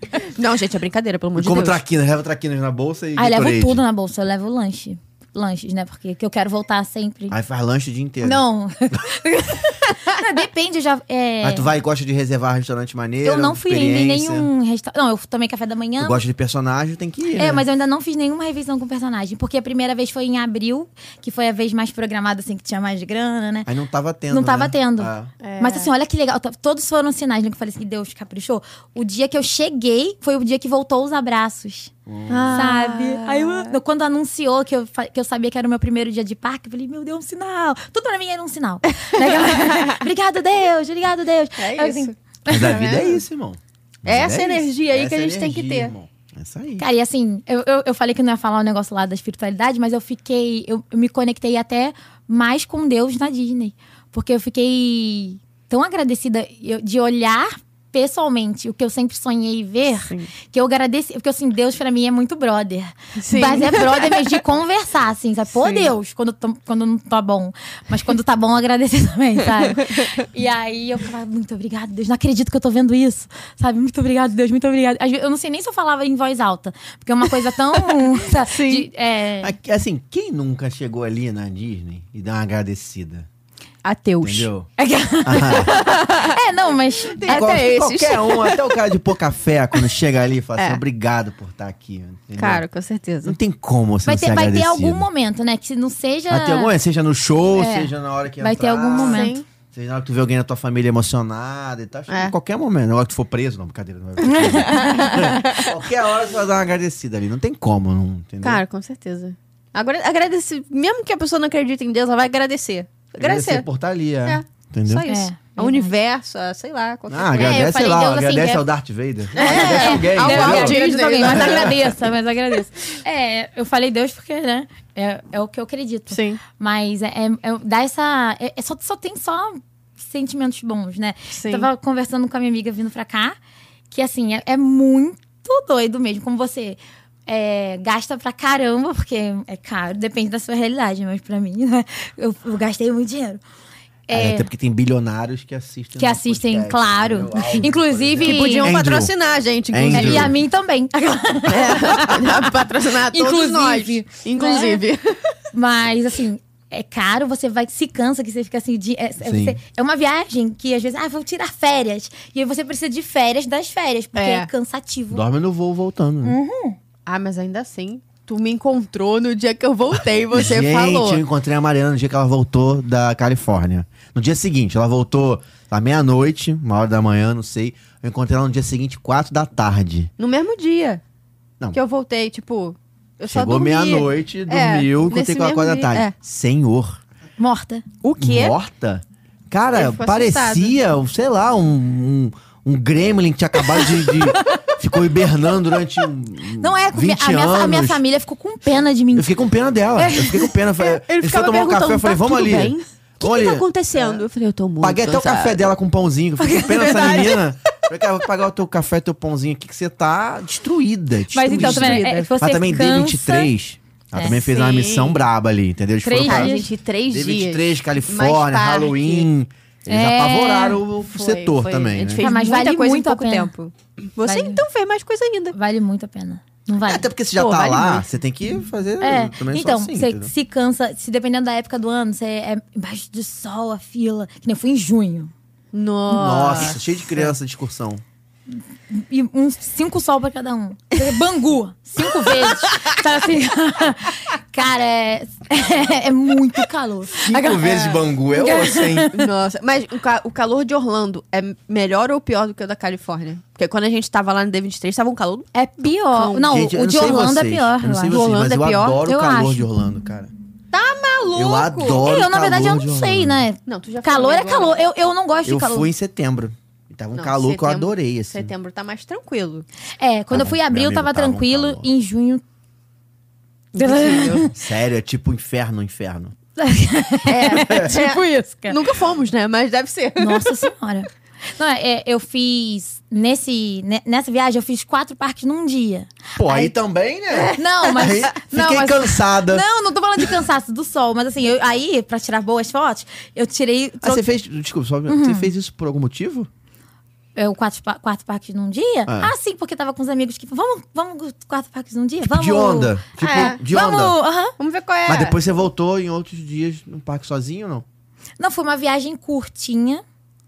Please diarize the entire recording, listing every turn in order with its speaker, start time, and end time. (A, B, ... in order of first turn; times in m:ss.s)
0:00.1-0:01.8 A
0:01.4-0:03.8 B
0:03.2-0:07.4 C
0:07.3-0:08.4 B
0:08.2-0:11.7 C
0:11.4-0:14.5 B
0:13.2-0:16.2 C
0:16.0-0:17.6 B
0:17.3-0:23.7 C
0:23.7-0:25.3 B
0:24.3-0:42.8 C
0:25.4-0:25.9 A
0:32.1-0:32.7 B
0:32.3-0:33.8 A
0:39.0-0:40.0 A
0:41.6-0:43.2 A
0:42.5-0:46.9 B
0:44.0-0:45.9 A
0:46.8-1:19.5 C
1:00.0-1:00.3 A
1:03.2-1:04.3 A
1:05.6-1:05.9 A
1:18.2-1:18.9 A
1:19.4-1:23.3 B
1:23.8-1:24.5 A
1:24.2-1:24.7 B
1:24.8-1:27.6 C
1:25.2-1:25.8 B
1:25.6-1:26.4 A
1:27.1-1:28.8 A
1:27.2-1:32.6 B
1:30.6-1:30.8 A
1:32.4-1:33.4 A
1:33.2-1:35.1 B
1:34.0-1:36.7 C
1:36.3-1:48.6 B
1:37.6-1:39.4 C
1:39.0-1:39.4 A
1:42.1-1:42.3 A
1:44.2-1:45.2 C
1:44.5-1:45.7 A
1:48.4-1:53.7 A
1:53.2-1:55.1 B
1:54.2-1:57.7 A
1:55.1-1:55.9 C
1:57.1-2:01.9 B
1:57.3-1:58.7 C
1:59.3-2:01.9 A
1:59.3-2:13.4 C
2:06.1-2:06.4 A
2:11.3-2:11.7 A
2:13.9-2:23.4 C
2:24.1-2:24.5 C
2:24.1-2:29.1 B
2:26.0-2:28.7 C
2:28.2-2:30.3 A
2:29.7-2:30.4 B
2:29.9-2:34.8 C
2:31.5-2:35.2 A
2:35.5-2:45.2 C
2:39.2-2:39.6 B
2:44.1-2:44.5 A
2:45.1-2:46.4 B
2:46.2-2:46.8 C
2:47.1-2:51.2 A
2:50.3-3:00.1 B
3:00.2-3:01.0 A
3:01.7-3:06.1 A
3:03.3-3:07.0 B
3:07.4-3:07.8 C
3:08.0-3:08.6 A
3:08.2-3:18.0 B
3:09.7-3:10.8 A
3:14.4-3:14.6 C
3:16.6-3:19.3 C
3:19.1-3:24.2 B
3:20.0-3:20.5 C
3:20.8-3:25.6 A
3:24.8-3:36.5 B
3:26.4-3:27.4 C
3:26.5-3:27.4 A
3:31.3-3:33.5 C
3:31.5-3:32.3 A
3:34.2-3:35.2 A
3:36.0-3:36.7 C
3:36.2-3:39.3 A
3:37.1-3:42.3 B
3:39.9-3:40.8 C
3:41.1-3:45.6 A
3:42.2-3:43.5 C
3:44.2-3:44.6 C
3:45.5-3:47.1 C
3:46.8-3:50.3 B
3:47.4-3:48.0 A
3:49.0-3:55.3 C
3:55.7-3:57.3 A
3:56.1-3:58.0 B
3:58.9-4:09.2 C
4:07.2-4:09.1 B
4:09.1-4:15.5 A
4:15.5-4:18.2 C
4:16.1-4:16.5 A
4:16.4-4:20.3 B
4:18.1-4:19.0 A
4:19.0-4:19.7 C
4:20.7-4:22.0 A
4:21.3-4:23.4 B
4:21.9-4:25.9 C
4:23.6-4:24.9 A
4:25.4-4:28.5 B
4:27.1-4:29.6 A
4:30.0-4:32.4 C
4:30.3-4:31.9 B
4:33.7-4:34.5 A
4:33.8-4:34.5 C
4:34.5-4:36.3 B
4:36.6-4:38.8 C
4:37.2-4:40.6 A
4:37.6-4:37.9 B
4:40.2-4:46.7 C
4:46.4-4:49.6 B
4:47.3-4:48.1 A
4:47.6-4:54.3 C
4:54.0-4:56.5 B
4:55.1-4:55.5 C
4:57.4-5:04.5 C
4:59.1-4:59.3 B
5:02.2-5:04.2 B
5:03.2-5:03.6 A
5:04.6-5:05.4 A
5:05.1-5:07.8 B
5:08.4-5:10.0 C